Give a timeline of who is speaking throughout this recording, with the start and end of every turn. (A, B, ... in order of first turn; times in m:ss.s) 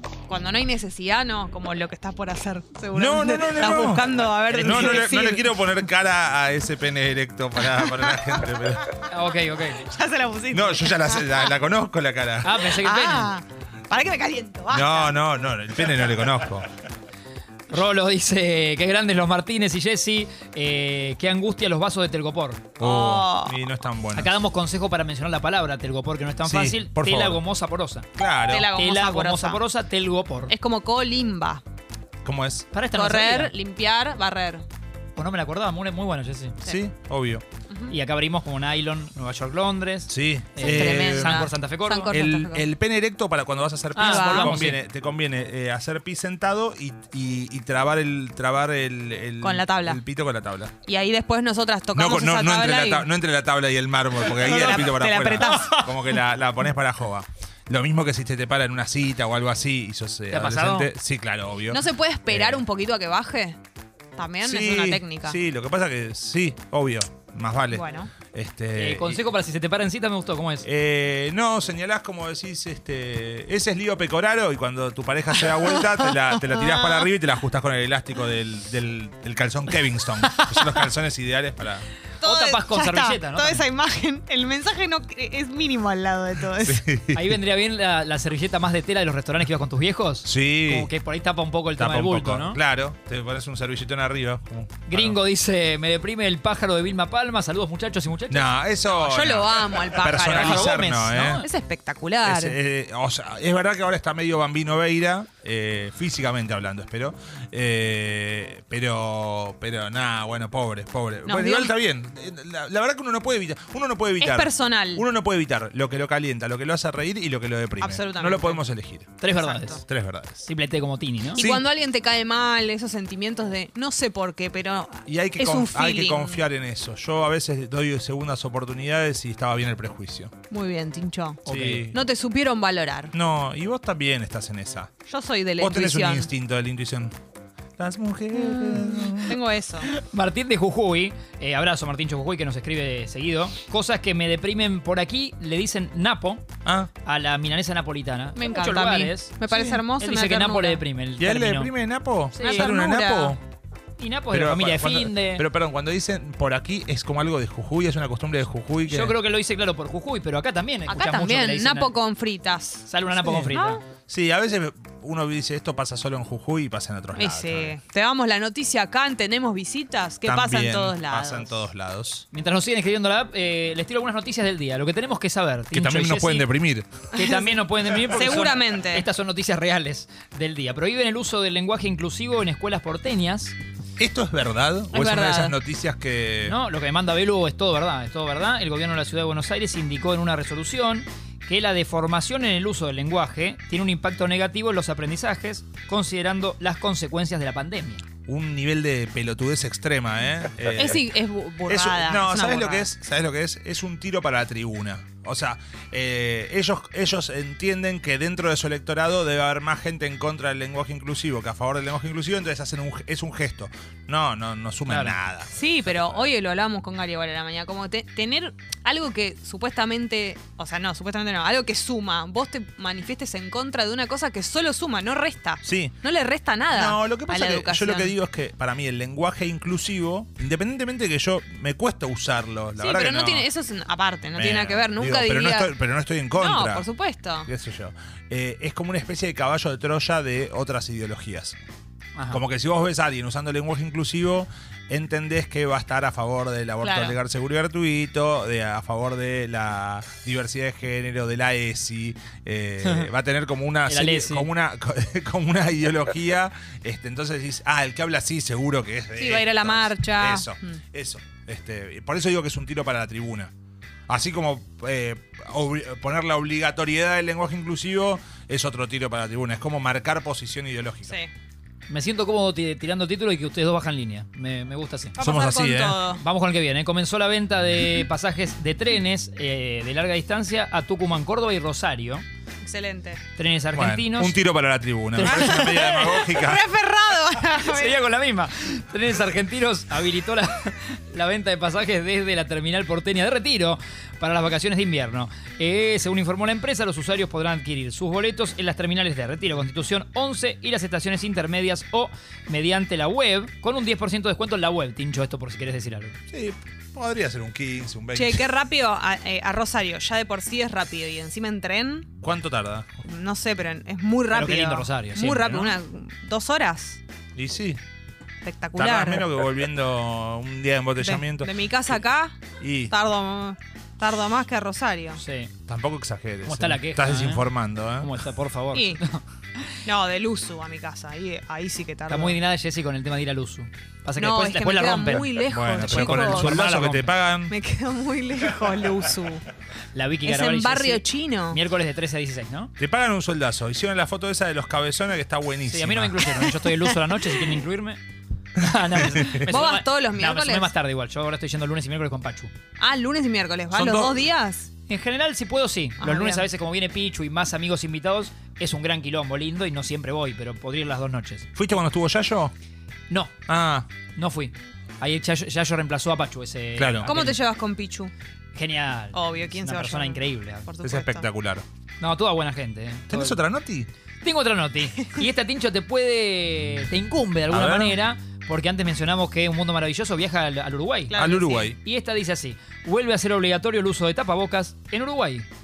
0:00.3-0:05.5 A
0:02.9-0:08.9 B
0:04.5-0:05.1 C
0:07.7-0:08.4 A
0:09.1-0:09.8 C
0:09.7-0:11.5 A
0:10.5-0:12.6 B
0:12.4-0:13.3 C
0:12.6-0:15.1 A
0:14.7-0:16.7 B
0:17.7-0:22.8 C
0:22.8-0:23.6 A
0:22.8-0:24.4 B
0:24.1-0:28.1 C
0:26.4-0:27.4 B
0:28.2-0:28.7 B
0:28.5-0:29.6 A
0:28.7-0:30.5 C
0:30.5-0:31.6 A
0:32.2-0:32.7 B
0:32.7-0:33.5 C
0:32.9-0:34.6 A
0:35.2-0:36.6 C
0:36.6-0:37.4 B
0:37.7-0:37.9 A
0:37.9-0:42.1 C
0:40.1-0:41.5 B
0:40.6-0:42.7 A
0:42.1-0:50.7 B
0:43.9-0:44.8 C
0:44.0-0:44.6 A
0:49.4-0:50.0 A
0:50.8-0:53.1 A
0:51.9-1:02.6 B
0:54.3-0:55.9 A
0:55.4-0:55.9 C
1:00.3-1:00.9 C
1:01.7-1:03.6 A
1:04.2-1:05.4 A
1:04.4-1:09.2 B
1:07.7-1:08.1 A
1:08.7-1:10.7 C
1:10.6-1:21.9 B
1:15.5-1:17.1 A
1:20.4-1:20.7 C
1:22.2-1:26.8 A
1:22.2-1:23.6 C
1:26.6-1:27.4 B
1:27.1-1:32.6 C
1:30.2-1:30.9 B
1:31.8-1:35.2 B
1:34.9-1:38.5 C
1:38.3-1:41.4 B
1:38.9-1:40.8 A
1:40.2-1:41.4 C
1:41.4-1:42.6 A
1:42.2-1:59.2 B
1:51.2-1:51.7 A
1:54.2-1:55.0 A
1:57.8-1:58.6 A
1:59.2-1:59.8 C
1:59.3-1:59.8 A
1:59.8-2:00.5 B
2:00.4-2:01.4 C
2:01.3-2:06.4 A
2:01.4-2:01.6 B
2:05.0-2:10.3 B
2:10.5-2:13.1 A
2:11.4-2:11.9 C
2:11.4-2:12.0 B
2:13.1-2:14.9 B
2:15.1-2:16.3 A
2:15.6-2:17.2 B
2:17.8-2:19.4 B
2:18.3-2:19.9 A
2:19.9-2:26.4 C
2:26.6-2:26.9 B
2:27.0-2:29.4 C
2:28.3-2:30.8 A
2:29.5-2:29.8 B
2:30.0-2:31.7 C
2:31.2-2:33.4 B
2:32.3-2:32.7 C
2:32.4-2:33.4 A
2:34.0-2:35.5 C
2:34.3-2:39.2 B
2:38.9-2:41.9 C
2:40.9-2:42.9 A
2:42.9-2:43.8 C
2:43.2-2:43.5 B
2:43.5-2:43.8 A
2:44.1-2:47.7 B
2:47.1-2:51.6 A
2:50.2-2:52.2 B
2:52.3-2:56.5 C
2:55.7-2:57.0 B
2:57.1-3:03.5 C
2:57.2-2:59.1 A
3:04.0-3:06.6 B
3:04.9-3:05.6 A
3:06.4-3:18.0 C
3:18.2-3:21.0 B
3:20.8-3:22.9 A
3:21.6-3:36.3 B
3:34.9-3:35.2 C
3:35.5-3:48.1 A
3:45.6-3:46.0 B
3:46.7-3:53.4 B
3:52.8-3:55.8 A
3:54.3-3:56.9 B
3:56.3-3:57.5 A
3:57.4-4:01.6 B
4:02.2-4:02.4 C
4:02.3-4:23.5 B
4:06.8-4:07.2 A
4:13.9-4:14.5 C
4:19.2-4:20.8 A
4:24.1-4:31.2 B
4:31.9-4:35.2 C
4:35.2-4:36.2 A
4:35.2-4:36.0 B
4:36.2-4:42.2 C
4:42.6-4:43.2 A
4:43.4-4:44.4 C
4:43.7-4:46.6 B
4:45.1-4:46.2 C
4:45.2-4:48.0 A
4:47.6-5:06.2 C
5:06.3-5:08.4 B
5:08.1-5:12.1 A
5:12.2-5:13.0 B
5:13.0-5:17.0 A
5:14.3-5:15.7 C
5:17.4-5:17.8 B
5:18.4-5:19.3 A
5:18.8-5:21.9 B
5:21.0-5:25.2 A
5:22.6-5:22.9 B
5:25.2-5:25.5 C
5:25.7-5:28.1 B
5:26.4-5:27.5 C
5:28.0-5:29.2 C
5:28.7-5:29.0 A
5:29.8-5:32.4 A
5:32.1-5:37.1 C
5:34.2-5:36.6 A
5:35.5-5:37.5 B
5:37.5-5:39.4 A
5:39.9-5:42.7 C
5:40.2-5:41.6 A
5:42.8-5:46.3 B
5:45.7-5:48.0 C
5:46.4-5:47.0 A
5:48.5-5:52.5 C
5:48.6-5:49.5 B
5:49.3-5:50.7 A
5:52.8-5:54.7 A
5:53.7-5:54.2 B
5:54.9-6:01.4 C
5:56.0-5:56.5 A
6:01.5-6:02.5 B
6:03.5-6:03.9 B
6:04.2-6:07.4 C
6:06.8-6:07.1 B
6:07.0-6:08.1 A
6:08.5-6:10.7 C
6:09.1-6:11.3 A
6:10.8-6:11.6 B
6:12.0-6:13.4 C
6:13.1-6:13.9 B
6:14.2-6:21.2 C
6:17.5-6:18.0 B
6:21.1-6:21.7 A
6:21.1-6:21.8 B
6:21.7-6:25.5 C